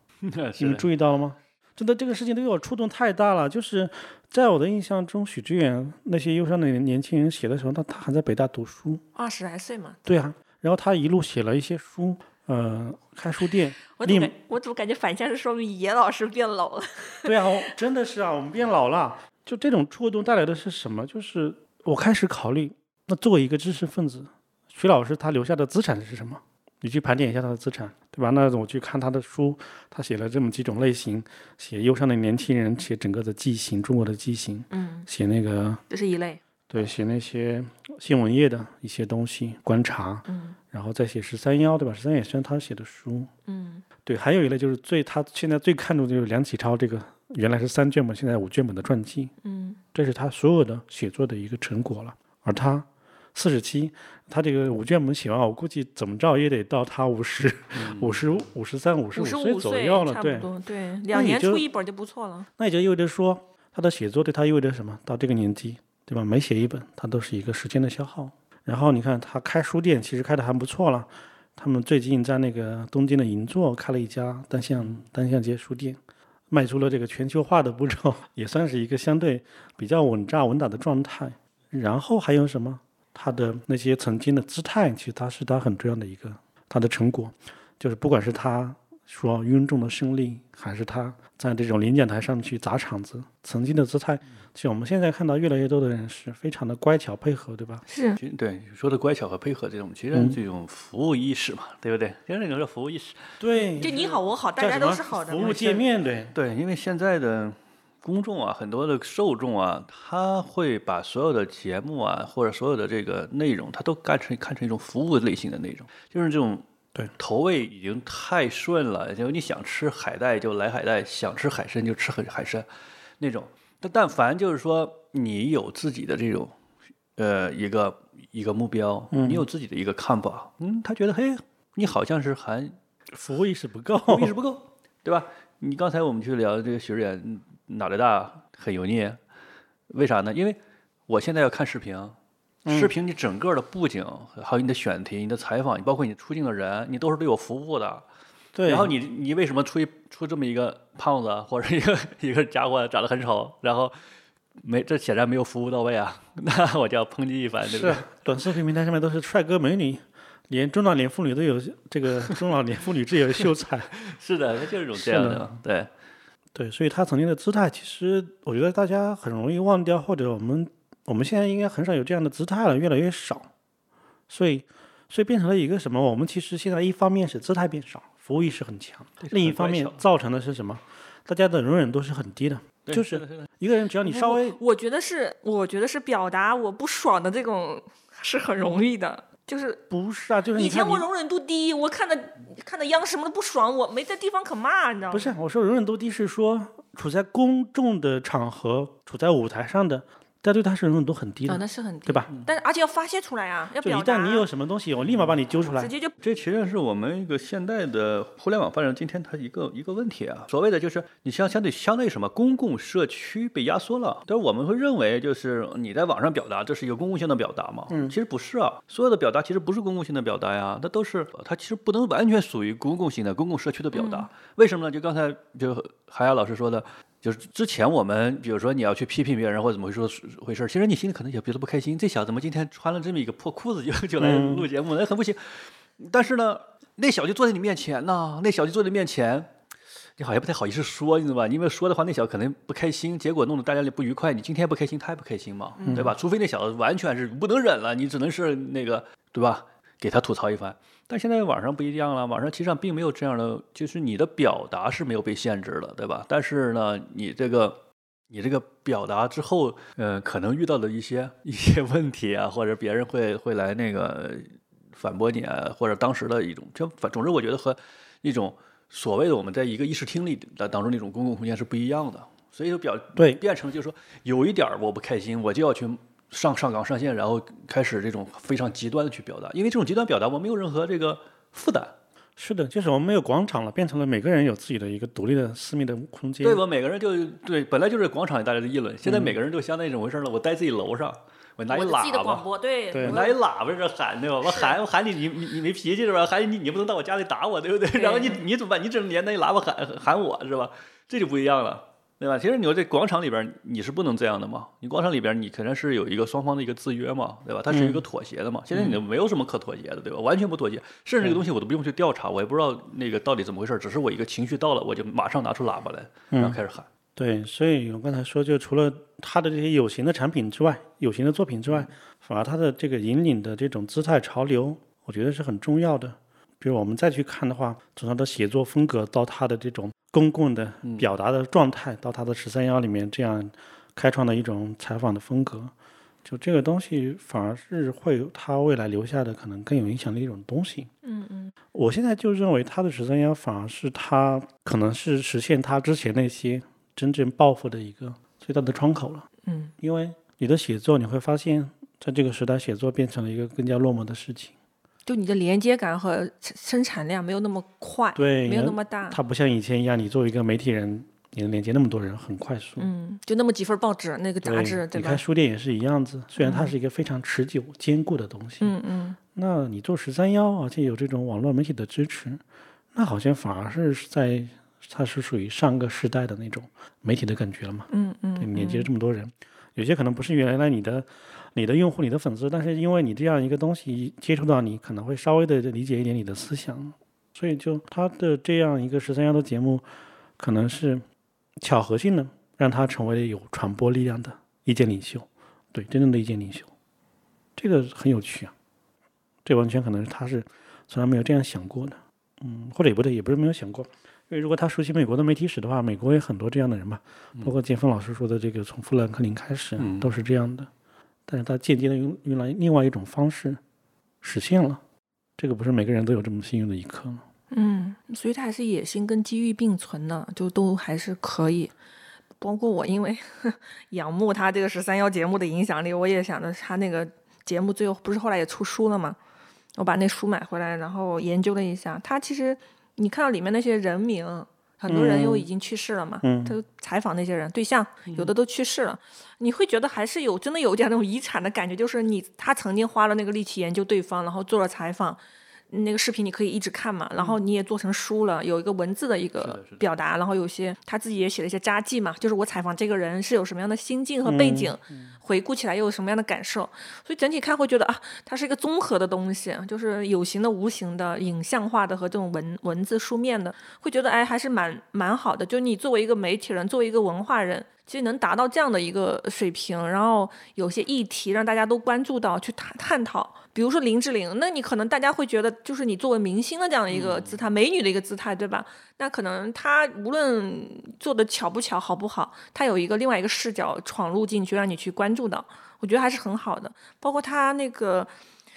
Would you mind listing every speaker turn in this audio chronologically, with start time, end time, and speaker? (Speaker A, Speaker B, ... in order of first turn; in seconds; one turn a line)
Speaker A: 0.2-0.9
Speaker B: 0.6-9.0
Speaker C: 9.2-10.0
Speaker B: 10.1-14.3
Speaker C: 13.9-17.7
Speaker B: 17.2-35.8
Speaker C: 34.7-35.1
Speaker C: 35.9-36.4
Speaker B: 36.7-43.3
Speaker C: 40.3-40.6
Speaker C: 43.5-43.9
Speaker B: 44.0-49.3
Speaker C: 49.4-49.8
Speaker B: 49.9-60.5
Speaker A: 57.8-58.2
Speaker C: 59.1-62.5
Speaker B: 61.1-61.6
Speaker B: 62.6-97.8
Speaker C: 97.9-98.2
Speaker A: 98.2-104.1
Speaker B: 103.4-104.0
Speaker C: 103.8-105.8
Speaker B: 104.6-106.3
Speaker A: 106.3-116.7
Speaker A: 117.2-122.7
Speaker A: 123.2-126.5
Speaker A: 127.2-132.8
Speaker B: 129.1-129.5
Speaker B: 133.1-134.3
Speaker A: 134.1-139.2
Speaker A: 139.9-148.1
Speaker B: 142.7-142.9
Speaker B: 148.6-148.9
Speaker A: 148.7-154.0
Speaker A: 154.6-158.1
Speaker B: 157.7-163.9
Speaker A: 163.9-165.9
Speaker B: 165.0-165.6
Speaker B: 166.5-173.5
Speaker B: 174.3-184.6
Speaker A: 179.2-180.0
Speaker A: 182.9-183.5
Speaker C: 184.1-189.8
Speaker B: 189.9-191.1
Speaker C: 190.6-195.3
Speaker B: 195.1-202.3
Speaker C: 201.5-204.5
Speaker B: 203.8-205.9
Speaker C: 205.8-206.1
Speaker A: 206.2-239.5
Speaker B: 217.9-218.2
Speaker C: 223.9-224.3
Speaker B: 234.2-234.7
Speaker A: 240.2-281.9
Speaker C: 245.8-246.1
Speaker B: 245.9-246.2
Speaker B: 273.2-273.4
Speaker B: 282.4-286.6
Speaker A: 286.4-292.5
Speaker B: 289.1-289.4
Speaker C: 291.7-293.4
Speaker B: 292.9-293.2
Speaker A: 293.0-316.9
Speaker C: 294.4-294.8
Speaker C: 297.9-298.4
Speaker B: 307.7-308.0
Speaker B: 316.3-316.6
Speaker B: 317.2-335.7
Speaker B: 336.2-340.9
Speaker C: 341.0-341.5
Speaker B: 341.7-349.3
Speaker C: 349.5-349.7
Speaker B: 349.8-354.5
Speaker C: 355.1-359.2
Speaker B: 358.2-362.9
Speaker C: 362.8-365.2
Speaker B: 364.4-368.7
Speaker C: 366.4-366.7
Speaker C: 368.6-369.2
Speaker B: 369.4-372.4
Speaker B: 372.9-389.9
Speaker C: 377.9-378.9
Speaker B: 390.4-391.0
Speaker B: 391.6-396.7
Speaker B: 397.6-398.5
Speaker B: 399.4-410.7
Speaker A: 409.8-410.1
Speaker B: 411.3-413.6
Speaker B: 414.2-414.8
Speaker B: 415.4-417.2
Speaker C: 417.5-421.7
Speaker C: 422.4-429.2
Speaker C: 429.8-445.2
Speaker B: 434.9-435.5
Speaker B: 436.2-436.6
Speaker C: 445.7-488.1
Speaker A: 449.4-449.8
Speaker B: 454.2-455.1
Speaker A: 476.9-477.4